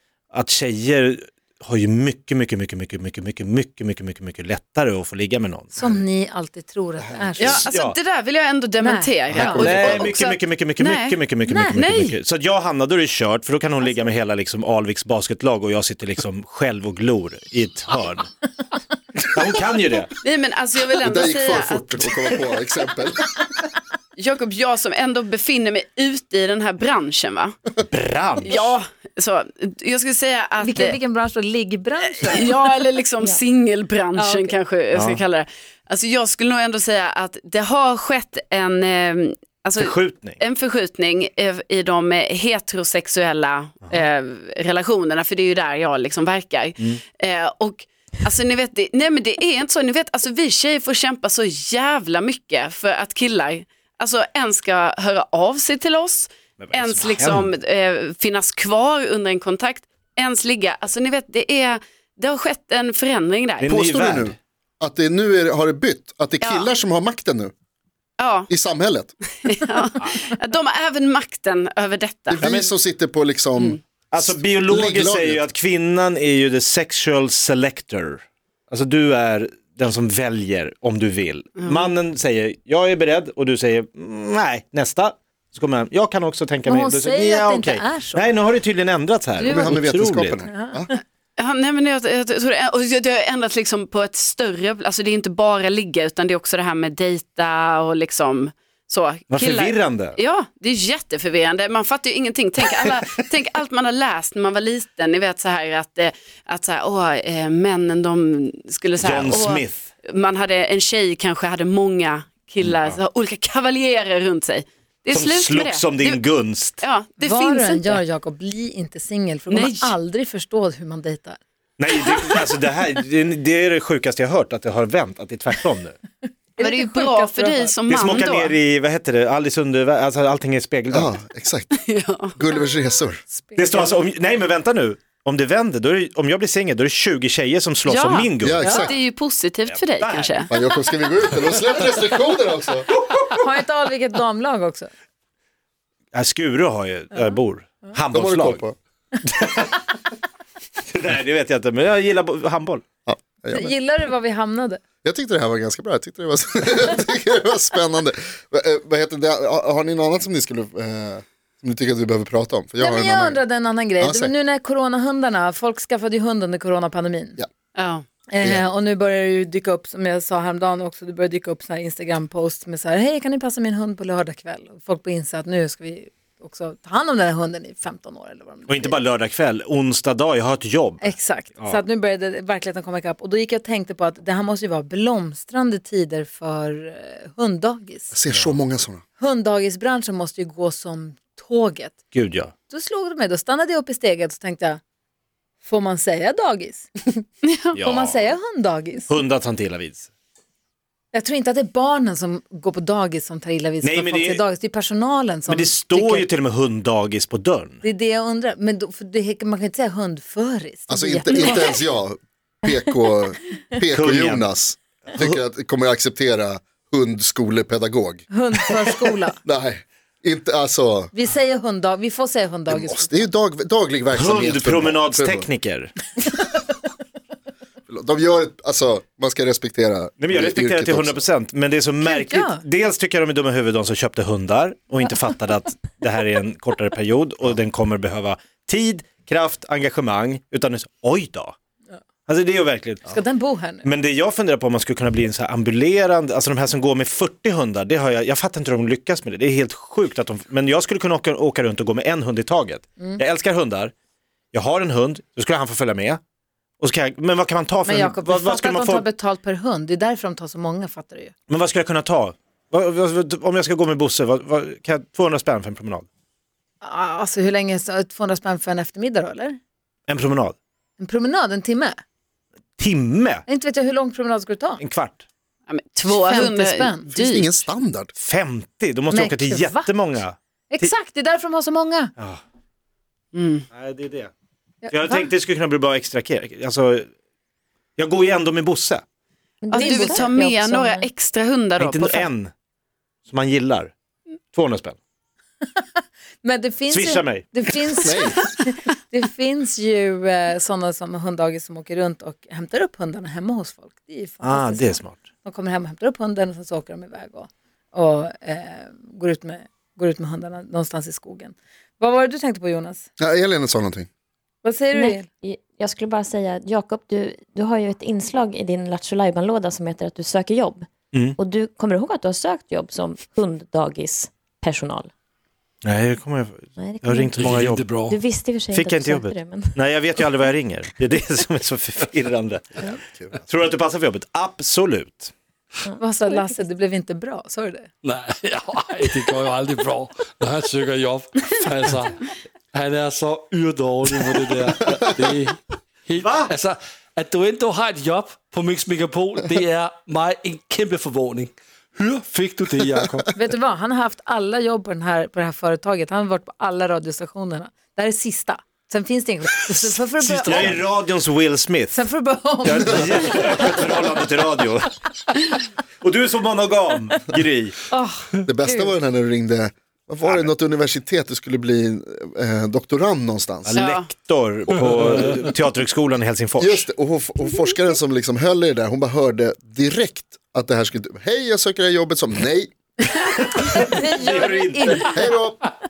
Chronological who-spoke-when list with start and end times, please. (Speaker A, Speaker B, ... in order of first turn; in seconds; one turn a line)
Speaker A: 0.3-5.8
Speaker B: 5.8-7.7
Speaker C: 7.0-7.7
Speaker D: 7.4-11.2
Speaker A: 7.7-8.0
Speaker B: 8.8-9.7
Speaker A: 9.3-18.3
Speaker C: 9.7-10.1
Speaker B: 11.5-12.1
Speaker D: 11.8-12.1
Speaker B: 13.8-14.1
Speaker A: 19.2-20.1
Speaker D: 20.2-22.5
Speaker C: 21.0-23.3
Speaker D: 24.2-27.6
Speaker A: 27.9-28.8
Speaker D: 28.4-31.0
Speaker B: 30.6-32.6
Speaker D: 32.2-63.8
Speaker B: 34.2-34.6
Speaker A: 34.9-35.2
Speaker A: 39.8-40.4
Speaker A: 56.6-57.5
Speaker A: 63.6-64.4
Speaker C: 63.6-67.5
Speaker D: 66.4-66.7
Speaker D: 68.2-68.5
Speaker C: 68.5-69.2
Speaker D: 69.4-72.7
Speaker C: 72.4-75.4
Speaker A: 74.1-90.4
Speaker D: 81.6-81.9
Speaker B: 86.7-88.3
Speaker B: 89.4-89.8
Speaker C: 89.5-90.9
Speaker B: 90.5-91.0
Speaker D: 91.4-116.2
Speaker A: 99.3-100.2
Speaker A: 109.0-109.9
Speaker A: 112.6-113.0
Speaker A: 115.1-116.8
Speaker D: 116.8-118.0
Speaker B: 117.2-121.4
Speaker D: 119.5-120.0
Speaker A: 121.8-126.0
Speaker B: 126.6-127.7
Speaker D: 126.6-128.6
Speaker A: 127.9-131.2
Speaker C: 130.9-131.8
Speaker D: 131.8-132.4
Speaker C: 132.3-133.2
Speaker B: 133.3-134.0
Speaker A: 133.6-138.7
Speaker D: 137.9-140.5
Speaker C: 138.4-138.9
Speaker A: 139.7-140.5
Speaker C: 140.5-142.9
Speaker B: 143.4-144.9
Speaker A: 146.1-148.7
Speaker C: 148.1-148.8
Speaker A: 149.2-149.9
Speaker A: 150.9-152.8
Speaker C: 153.1-153.8
Speaker B: 153.5-154.8
Speaker C: 155.0-163.4
Speaker B: 162.8-167.4
Speaker C: 164.0-164.3
Speaker D: 167.8-168.1
Speaker B: 168.3-179.0
Speaker C: 168.4-168.7
Speaker A: 178.7-181.8
Speaker B: 181.0-188.1
Speaker C: 188.1-189.0
Speaker B: 189.2-192.0
Speaker A: 192.1-192.5
Speaker B: 192.7-194.8
Speaker B: 195.6-197.2
Speaker D: 197.4-197.8
Speaker A: 197.7-198.2
Speaker B: 197.8-199.2
Speaker A: 199.1-200.1
Speaker B: 201.1-206.3
Speaker A: 203.8-204.4
Speaker A: 205.5-207.8
Speaker B: 207.8-211.8
Speaker C: 210.9-218.3
Speaker A: 213.9-214.5
Speaker A: 215.1-215.4
Speaker B: 218.3-219.4
Speaker C: 219.4-221.1
Speaker B: 221.1-223.3
Speaker C: 222.7-225.5
Speaker A: 224.1-225.9
Speaker C: 227.9-231.2
Speaker A: 230.2-241.6
Speaker B: 232.0-232.6
Speaker A: 242.3-243.2
Speaker B: 243.1-243.9
Speaker A: 243.8-253.9
Speaker A: 254.5-256.2
Speaker A: 256.8-259.1
Speaker B: 257.9-261.3
Speaker A: 261.5-266.1
Speaker B: 266.8-269.6
Speaker A: 270.1-270.6
Speaker B: 271.0-272.0
Speaker A: 272.8-273.4
Speaker B: 273.5-274.8
Speaker A: 274.8-275.2
Speaker D: 275.7-277.6
Speaker B: 276.1-277.1
Speaker C: 277.1-278.1
Speaker A: 278.2-280.9
Speaker B: 279.1-279.9
Speaker B: 280.7-282.1
Speaker D: 283.4-283.6
Speaker A: 283.7-284.3
Speaker B: 284.9-285.3
Speaker A: 284.9-287.1
Speaker A: 288.0-289.0
Speaker E: 289.6-291.1
Speaker B: 289.7-290.3
Speaker D: 289.7-292.3
Speaker A: 291.8-292.5
Speaker A: 293.3-293.9
Speaker A: 294.5-295.0
Speaker B: 295.7-313.1
Speaker A: 296.9-297.5
Speaker C: 298.0-298.4
Speaker A: 304.4-305.2
Speaker C: 313.2-314.1
Speaker B: 314.6-315.3
Speaker E: 314.9-325.1
Speaker A: 325.8-328.0
Speaker E: 326.8-329.9
Speaker F: 327.4-328.2
Speaker A: 328.7-332.9
Speaker C: 332.8-333.4
Speaker A: 333.5-335.3
Speaker E: 335.9-336.5
Speaker B: 336.0-337.9
Speaker F: 338.0-342.2
Speaker F: 342.7-353.3
Speaker A: 346.2-346.5
Speaker B: 353.4-360.8
Speaker A: 360.2-362.1
Speaker B: 361.9-363.9
Speaker A: 362.6-364.9
Speaker A: 366.0-367.8
Speaker B: 367.9-368.9
Speaker C: 368.5-373.9
Speaker A: 370.2-370.5
Speaker A: 373.6-376.9
Speaker D: 373.8-374.1
Speaker C: 376.6-382.8
Speaker A: 383.5-385.2
Speaker B: 383.7-385.4
Speaker C: 385.1-385.6